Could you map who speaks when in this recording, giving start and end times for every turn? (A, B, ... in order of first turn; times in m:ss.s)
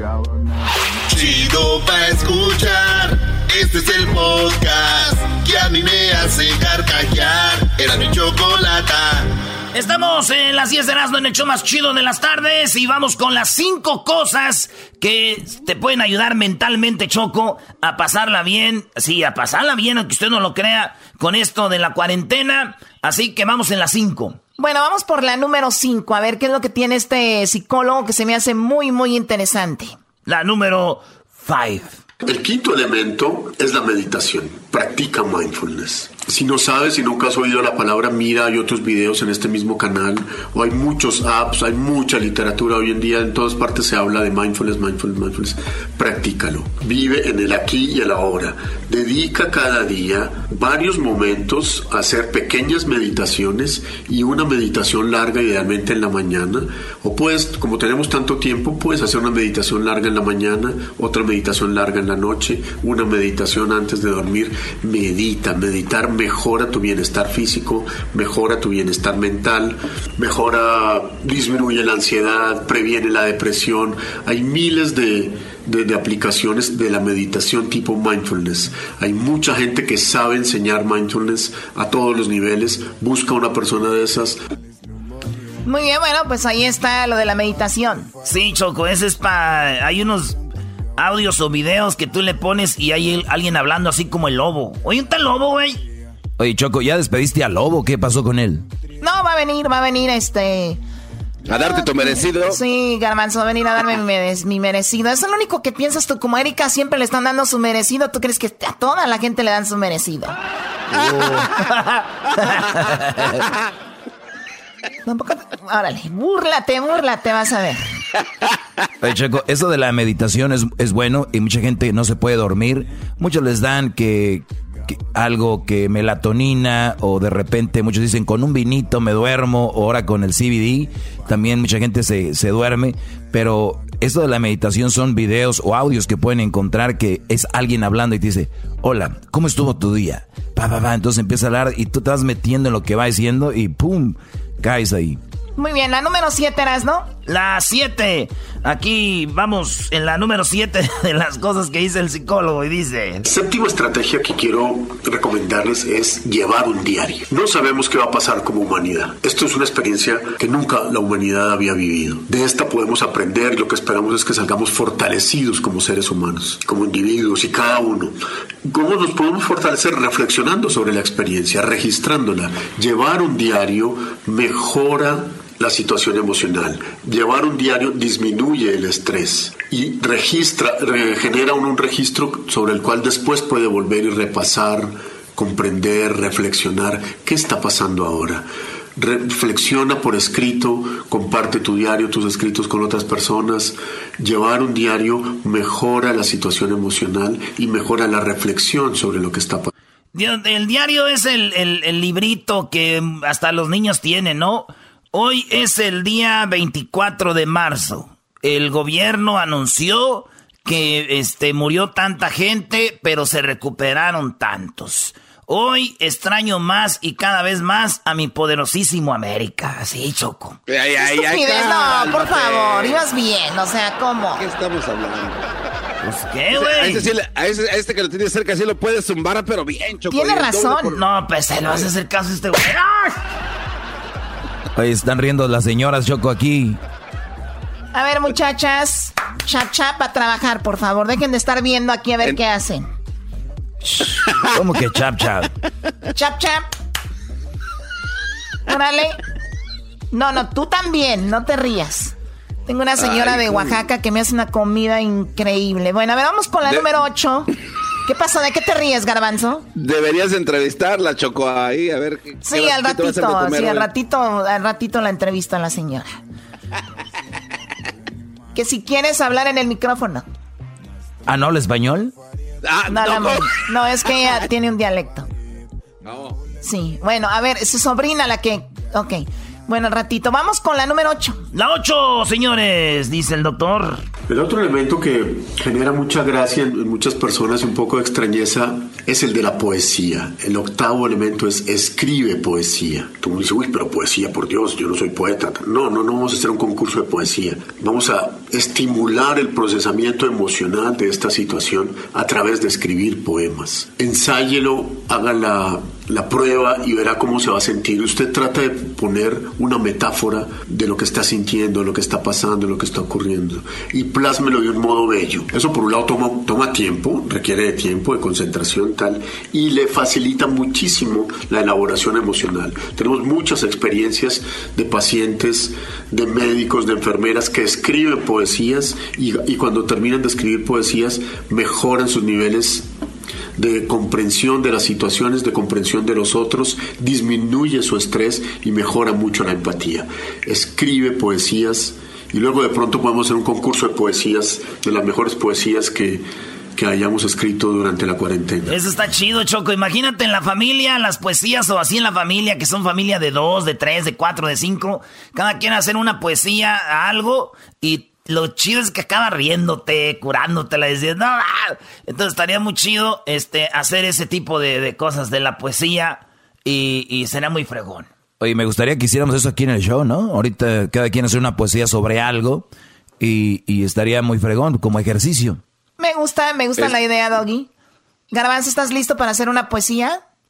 0:01.1-0:09.6 A
0:09.7-0:24.4 B
0:24.6-0:29.9 C
0:30.3-0:32.0 B
0:32.2-1:24.4 D
1:25.6-1:28.1 C
1:28.2-1:30.4 B
1:31.0-1:35.9 B
1:36.4-1:38.7 E
1:39.0-1:40.8 C
1:41.5-1:42.6 F
1:41.6-1:50.4 C
1:52.9-1:53.3 E
1:55.1-1:57.8 C
1:59.0-2:25.2 E
2:25.6-2:27.1 C
2:27.3-2:33.2 B
2:33.2-3:19.7 D
3:20.1-3:40.6 B
3:40.7-3:43.0 F
3:41.0-3:44.4 C
3:44.4-3:45.4 F
3:46.0-3:47.1 B
3:46.5-3:51.0 F
3:50.1-3:51.0 C
3:50.8-3:53.0 B
3:54.8-3:56.8 E
3:57.9-4:02.9 C
4:04.5-4:05.5 E
4:06.1-4:06.7 C
4:08.7-4:09.2 C
4:10.1-4:12.1 C
4:12.7-4:17.5 C
4:13.2-4:13.6 F
4:18.1-4:19.7 C
4:19.8-4:23.9 F
4:22.4-4:26.2 C
4:28.5-4:30.2 C
4:31.2-4:32.1 E
4:32.7-4:33.4 F
4:32.9-4:35.3 C
4:36.6-4:41.4 C
4:41.5-4:44.0 B
4:44.3-5:32.9 D
5:33.6-5:46.2 D
5:46.8-5:48.8 D
5:48.7-6:08.1 B
6:08.4-6:12.7 E
6:13.2-6:15.6 E
6:16.0-6:17.7 C
6:18.3-6:20.2 C